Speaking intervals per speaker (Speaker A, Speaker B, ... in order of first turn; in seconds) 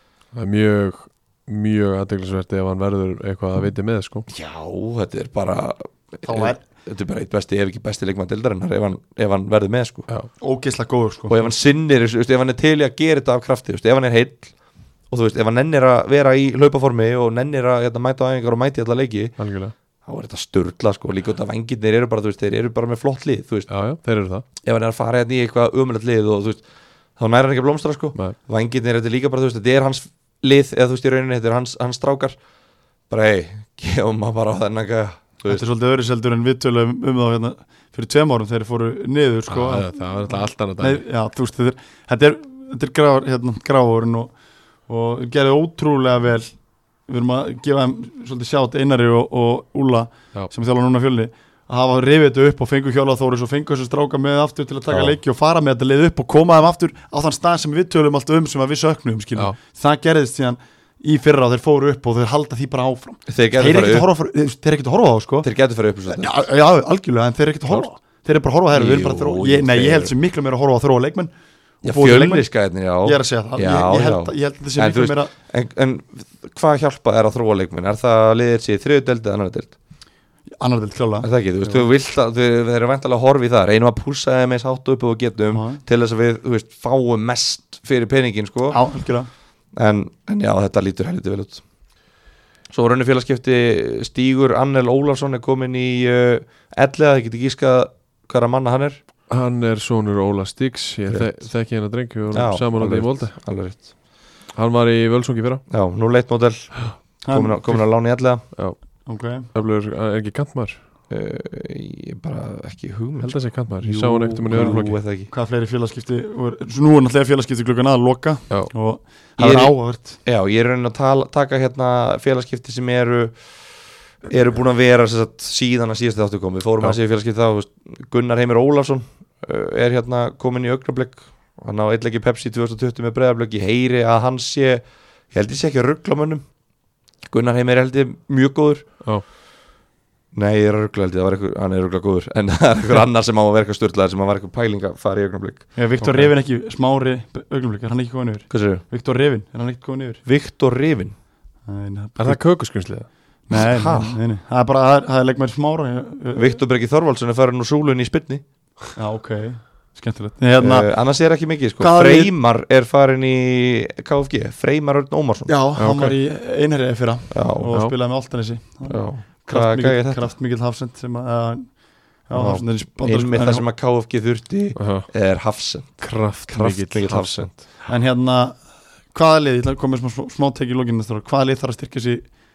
Speaker A: 0.3-4.2, 19.4-19.7, 23.7-24.4, 39.5-41.0, 99.3-103.3, 104.5-105.6, 108.5-108.8, 109.5-110.8, 113.2-115.0, 146.0-146.3, 152.2-153.1, 165.8-166.2, 172.3-172.6, 174.8-175.1, 176.0-177.6
Speaker B: 4.3-10.1, 11.3-14.5, 15.1-19.4, 20.1-23.7, 24.6-26.6, 27.2-32.4, 33.1-35.6, 54.9-55.1, 63.3-64.1, 65.4-66.3, 68.7-70.1, 71.8-79.7, 81.2-88.8, 89.7-91.6, 92.7-99.0, 101.1-101.4, 102.3-103.9, 105.7-108.5, 111.1-115.3, 119.4-123.5, 124.2-136.4, 137.2-138.9, 140.3-145.9, 148.5-148.8, 150.2-151.2, 153.5-154.2, 156.3-158.4, 160.6-165.5, 167.3-167.7, 168.9-170.3, 173.0-177.5
Speaker C: 6.2-6.6, 10.4-11.5, 35.5-44.3, 44.9-46.5, 47.0-65.5, 66.1-71.3, 71.8-72.5, 73.0-75.3, 80.6-81.9, 85.5-85.8, 88.7-89.3, 107.2-107.8, 109.0-109.5, 114.5-120.2, 145.8-150.2, 151.6-152.4, 153.5-156.6, 158.9-160.9, 161.8-162.3, 165.4-173.6, 177.9-178.6, 179.1-182.4